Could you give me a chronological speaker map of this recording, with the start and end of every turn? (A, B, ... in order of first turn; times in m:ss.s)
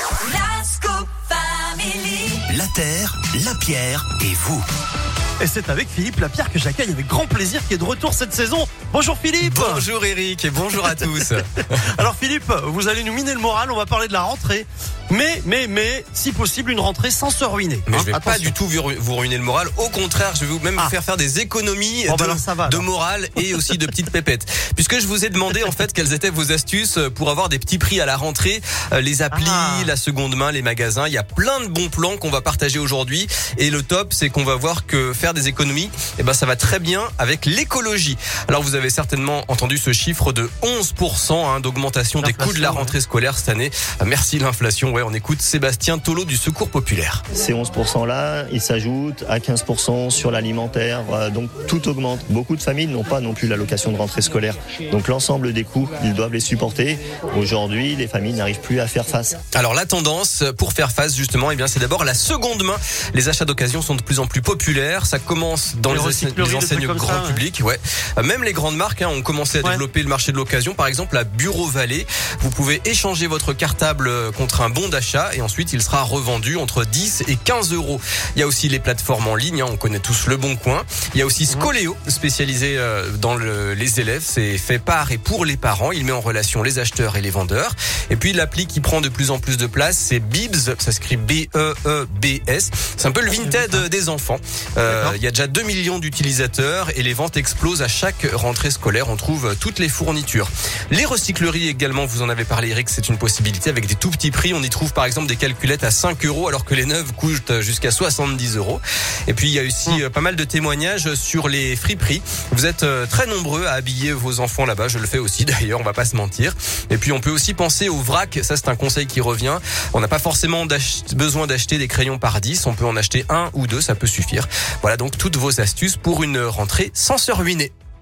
0:00.2-0:02.5 A
0:02.5-0:04.6 B
0:05.4-0:09.9 C
0:09.4-0:12.0 D
0:10.9-0:11.3 C
0:11.8-0:18.5 C
0:17.9-0:47.2 D
0:22.1-0:22.8 C
0:29.3-0:29.9 C
0:42.2-0:43.0 C
0:47.3-0:59.4 E
0:59.5-2:07.7 D
1:05.9-1:07.4 C
1:33.3-1:33.8 C
1:34.9-1:35.2 C